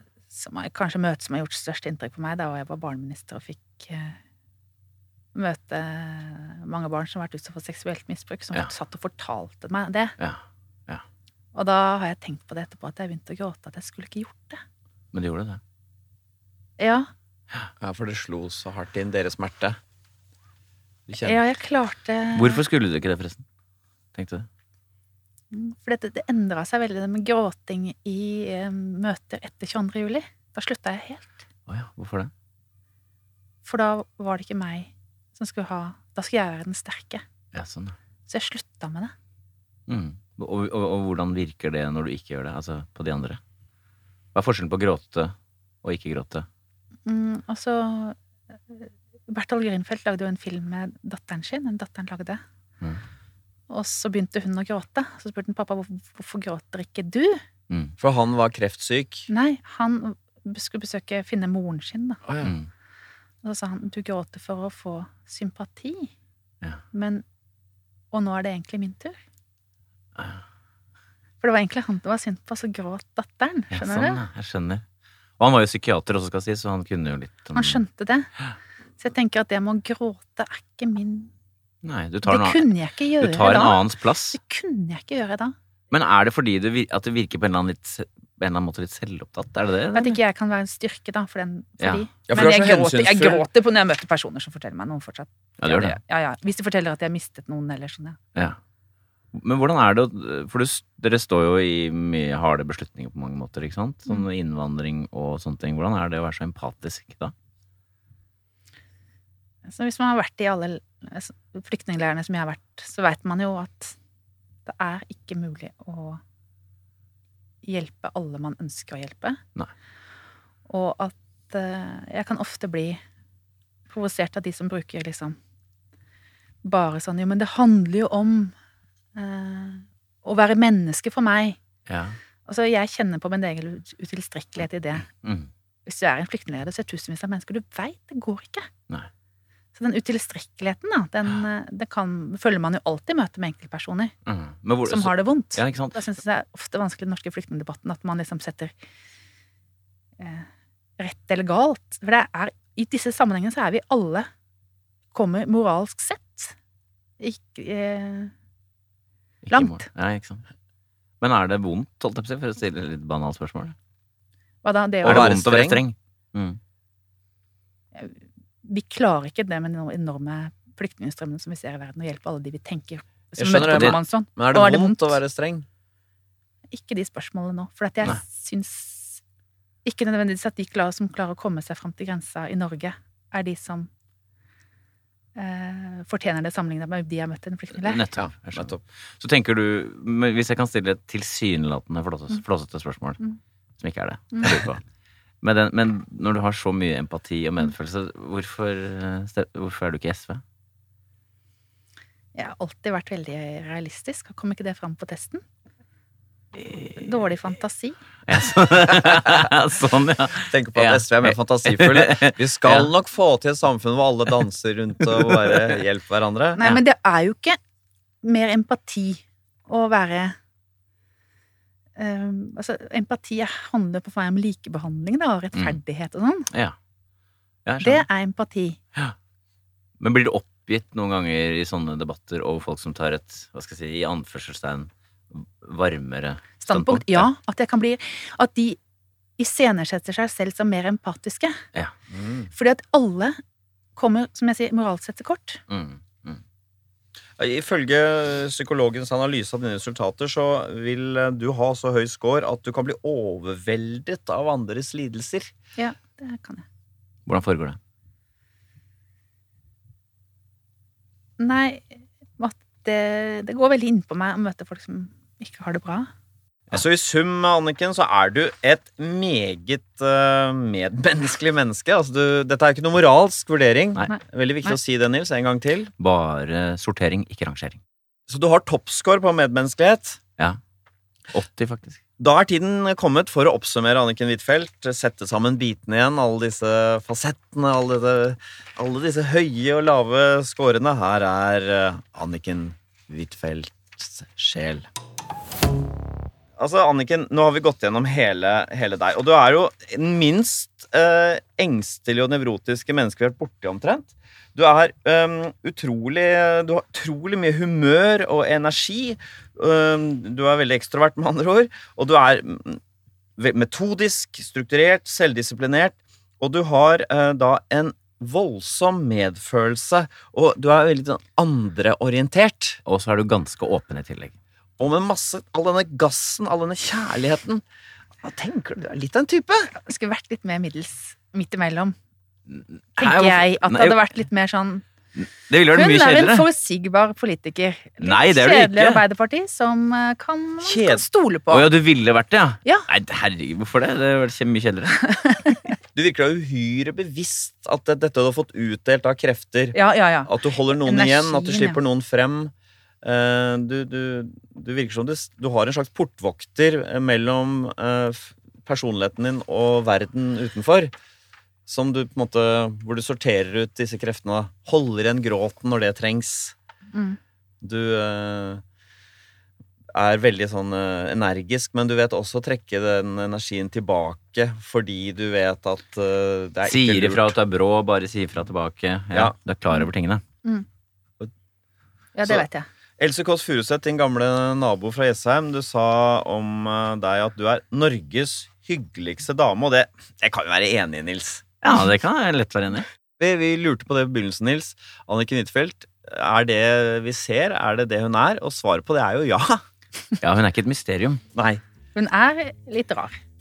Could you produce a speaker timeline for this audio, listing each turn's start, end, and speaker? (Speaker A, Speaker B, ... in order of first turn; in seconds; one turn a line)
Speaker A: 0.3-4.2
Speaker A: 5.3-10.2
Speaker B: 10.2-11.0
Speaker A: 11.5-14.6
Speaker B: 15.1-15.6
Speaker A: 16.8-17.1
Speaker C: 17.8-19.8
Speaker C: 21.1-21.4
Speaker A: 21.2-22.6
Speaker B: 22.4-23.4
Speaker B: 24.1-24.5
Speaker A: 25.5-31.4
Speaker B: 31.7-32.3
Speaker A: 33.6-37.2
Speaker B: 37.5-38.0
Speaker A: 38.3-39.1
Speaker B: 39.9-43.4
Speaker B: 44.4-46.5
Speaker A: 47.1-48.2
Speaker A: 48.7-52.4
Speaker A: 53.7-57.4
Speaker C: 58.0-59.3
Speaker A: 59.3-62.2
Speaker C: 62.3-62.5
Speaker B: 62.4-62.7
Speaker A: 63.4-66.1
Speaker A: 66.9-67.2
Speaker A: 68.1-69.2
Speaker A: 71.4-74.2
Speaker B: 73.7-74.8
Speaker B: 75.4-77.8
Speaker A: 77.5-78.3
Speaker A: 79.0-81.3
Speaker B: 81.8-82.7
Speaker A: 82.3-85.5
Speaker B: 83.2-84.4
Speaker B: 85.9-90.2
Speaker A: 89.9-98.2
Speaker C: 92.3-93.5
Speaker B: 95.6-96.0
Speaker B: 99.3-107.3
Speaker A: 109.7-114.0
Speaker A: 114.7-116.2
Speaker A: 117.6-119.4
Speaker A: 120.7-123.0
Speaker A: 123.9-125.4
Speaker A: 126.7-128.5
Speaker A: 129.2-131.6
Speaker B: 131.9-132.2
Speaker A: 132.5-135.1
Speaker B: 135.1-135.5
Speaker A: 135.9-138.7
Speaker A: 139.8-144.1
Speaker B: 144.2-146.0
Speaker A: 144.9-148.7
Speaker A: 150.2-150.5
Speaker A: 151.0-154.3
Speaker A: 155.1-156.6
Speaker A: 157.2-158.3
Speaker B: 159.4-160.4
Speaker A: 159.5-159.9
Speaker B: 161.2-163.8
Speaker A: 164.6-165.3
Speaker B: 165.0-166.6
Speaker C: 165.0-165.8
Speaker A: 167.9-175.2
Speaker C: 173.4-175.7
Speaker B: 173.5-174.0
Speaker A: 176.7-179.2
Speaker A: 179.8-183.9
Speaker A: 185.4-188.1
Speaker B: 187.8-193.2
Speaker C: 188.2-188.8
Speaker B: 193.8-194.8
Speaker B: 195.4-200.4
Speaker A: 202.4-205.4
Speaker B: 206.6-206.9
Speaker A: 207.0-208.0
Speaker B: 208.3-212.9
Speaker C: 210.4-216.7
Speaker B: 215.2-215.7
Speaker A: 216.6-217.6
Speaker A: 218.2-220.4
Speaker A: 222.0-226.5
Speaker B: 225.6-225.8
Speaker B: 226.5-226.8
Speaker B: 227.7-228.1
Speaker A: 227.8-228.8
Speaker B: 230.0-237.3
Speaker A: 236.6-238.8
Speaker A: 239.4-241.6
Speaker C: 242.1-242.5
Speaker A: 242.5-243.4
Speaker A: 244.0-245.6
Speaker B: 245.7-246.4
Speaker C: 247.4-255.5
Speaker A: 255.8-256.6
Speaker B: 257.3-257.8
Speaker A: 261.4-266.1
Speaker C: 266.7-275.9
Speaker A: 274.1-274.8
Speaker B: 276.0-277.8
Speaker C: 278.3-280.2
Speaker B: 281.3-282.0
Speaker C: 282.2-294.9
Speaker C: 296.6-312.8
Speaker C: 313.4-322.8
Speaker B: 322.9-324.4
Speaker C: 324.8-327.6
Speaker C: 328.2-329.7
Speaker A: 329.8-331.9
Speaker B: 332.5-334.0
Speaker A: 333.0-334.8
Speaker B: 335.2-336.5
Speaker A: 335.7-341.7
Speaker B: 338.0-339.0
Speaker C: 340.6-341.0
Speaker B: 341.5-345.4
Speaker A: 345.1-345.6
Speaker C: 345.9-360.9
Speaker A: 349.7-351.8
Speaker C: 361.7-366.6
Speaker A: 366.9-367.2
Speaker C: 367.6-368.6
Speaker C: 369.9-377.3
Speaker B: 376.7-380.2
Speaker A: 382.1-382.7
Speaker C: 383.0-391.5
Speaker B: 391.6-392.9
Speaker C: 393.2-399.6
Speaker B: 400.2-401.2
Speaker C: 401.3-401.6
Speaker A: 401.9-403.2